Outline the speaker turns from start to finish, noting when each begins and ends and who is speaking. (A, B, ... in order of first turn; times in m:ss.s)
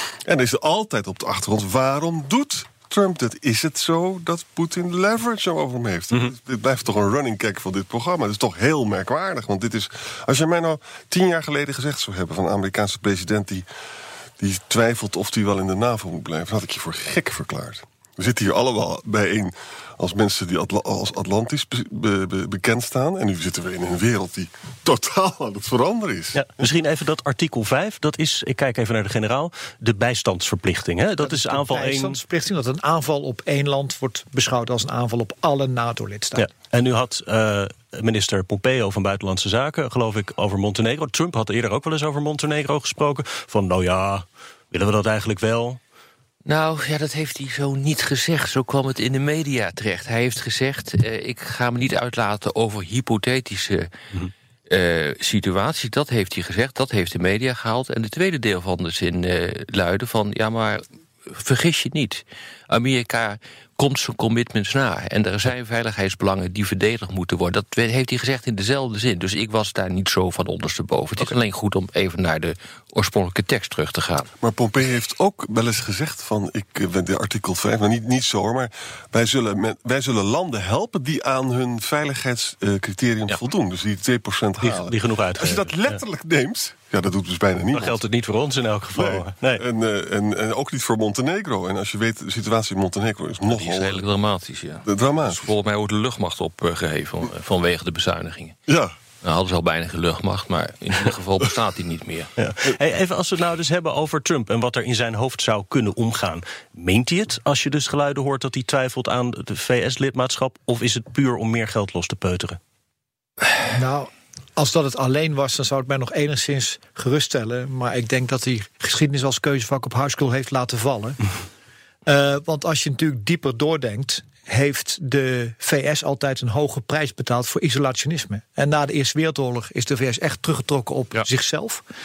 0:00.2-0:13.7 A
0:14.4-0:26.5 A
0:26.4-0:32.2 B
0:31.2-0:36.5 C
0:36.4-0:45.8 B
0:46.4-0:53.9 D
0:54.7-1:14.3 D
1:14.4-1:28.0 A
1:24.6-1:26.0 B
1:27.7-1:29.6 B
1:29.0-1:34.0 A
1:33.5-1:38.6 D
1:34.8-1:35.4 A
1:38.7-1:39.0 A
1:39.2-1:42.3 D
1:42.4-1:52.6 B
1:53.7-2:01.2 C
2:02.1-2:11.8 C